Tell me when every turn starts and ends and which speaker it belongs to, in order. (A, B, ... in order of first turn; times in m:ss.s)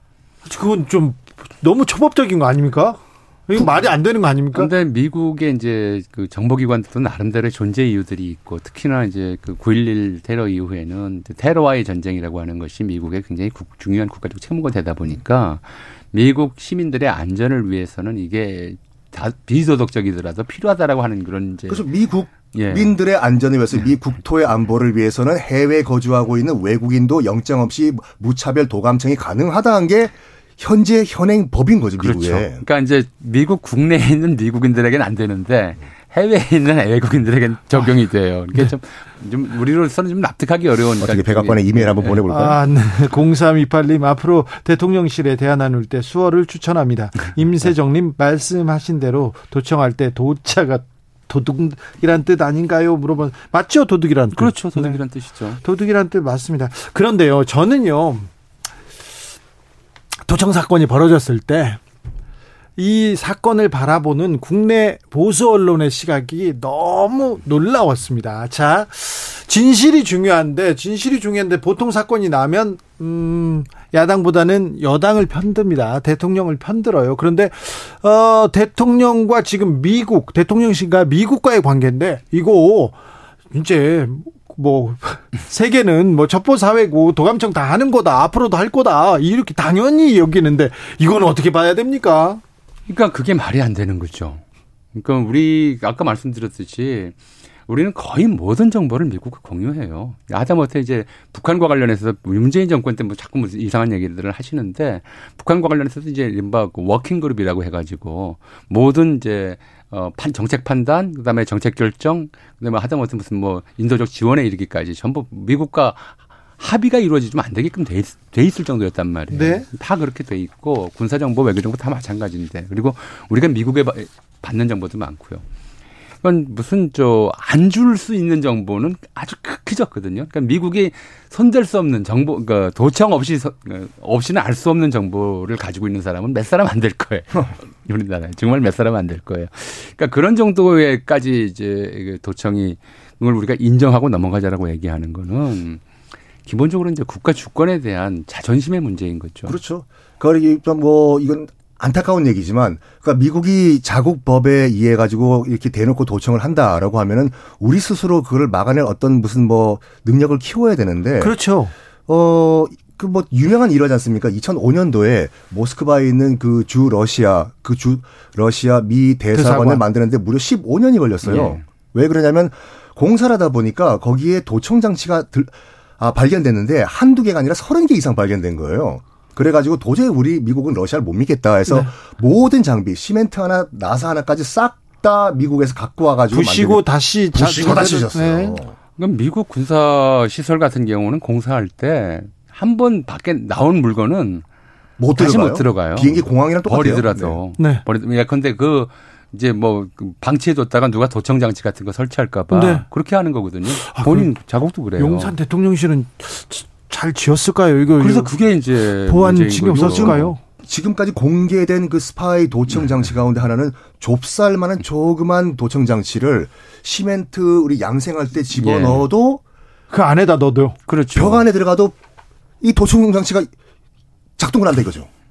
0:00.4-0:04.7 A
0:04.5-0:23.0 B
0:21.7-0:32.6 C
0:23.8-0:24.2 B
0:32.0-0:42.2 B
0:41.0-0:42.6 C
0:42.3-0:55.0 A
0:54.4-0:55.6 B
0:55.6-0:58.3 A
1:00.2-1:01.8 A
1:02.8-1:23.0 A
1:23.5-1:32.4 A
1:32.9-1:34.4 B
1:34.9-2:05.4 B
1:59.3-1:59.7 A
2:06.2-2:25.8 B
2:26.4-2:29.6 B
2:29.4-2:41.4 C
2:41.2-2:41.7 A
2:42.1-3:08.7 C
2:49.3-2:49.8 A
2:51.2-2:51.6 B
3:06.3-3:08.6 A
3:09.0-3:14.4 B
3:15.0-3:17.4 C
3:15.1-3:25.3 B
3:17.6-3:17.8 A
3:22.5-3:22.8 A
3:23.8-3:24.3 A
3:25.0-3:28.3 A
3:28.0-3:30.4 B
3:29.0-3:30.4 A
3:29.7-3:39.4 C
3:38.5-3:39.1 B
3:39.9-3:40.8 A
3:40.9-3:41.4 B
3:41.1-3:41.9 C
3:42.6-3:43.5 C
3:44.4-3:45.1 C